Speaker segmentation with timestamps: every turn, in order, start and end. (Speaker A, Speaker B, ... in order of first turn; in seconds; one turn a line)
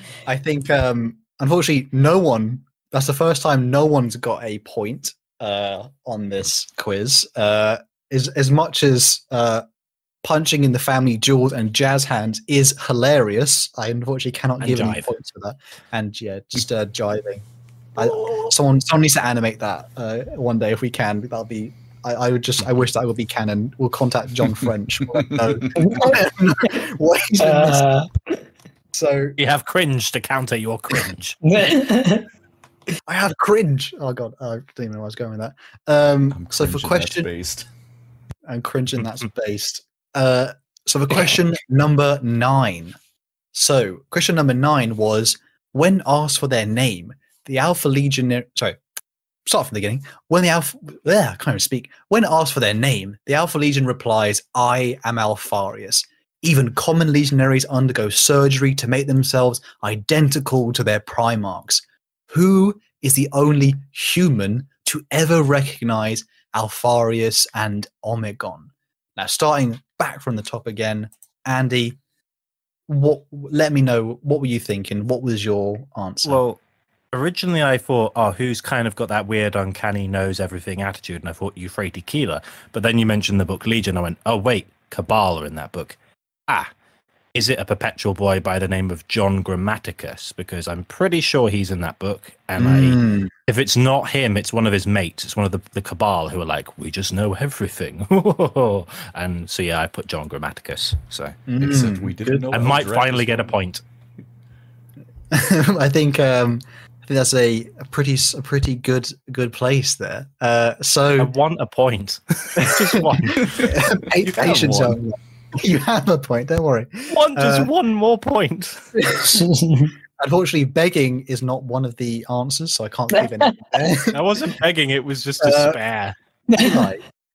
Speaker A: 0.2-9.6
Speaker A: 10.2-17.4
Speaker B: 14.6-15.1
Speaker A: 17.9-27.9
Speaker C: 18.0-18.5
Speaker D: 25.8-26.2
Speaker D: 27.4-28.2
Speaker A: 28.9-29.4
Speaker B: 29.4-31.4
Speaker D: 31.4-32.3
Speaker A: 33.0-37.3
Speaker C: 36.3-37.6
Speaker A: 38.5-43.0
Speaker A: 43.5-48.8
Speaker A: 49.5-72.0
Speaker A: 72.9-76.4
Speaker B: 76.2-76.6
Speaker B: 77.1-86.0
Speaker B: 87.3-101.4
Speaker A: 92.6-93.3
Speaker A: 101.5-102.5
Speaker C: 101.6-103.5
Speaker B: 102.5-103.8
Speaker A: 105.3-111.3
Speaker B: 111.2-113.6
Speaker A: 112.6-117.7
Speaker C: 113.4-115.0
Speaker B: 117.1-118.8
Speaker A: 118.9-119.5
Speaker D: 119.3-119.9
Speaker A: 120.2-124.2
Speaker D: 123.1-123.8
Speaker B: 124.1-126.2
Speaker A: 125.4-125.8
Speaker D: 126.5-126.9
Speaker A: 126.6-127.0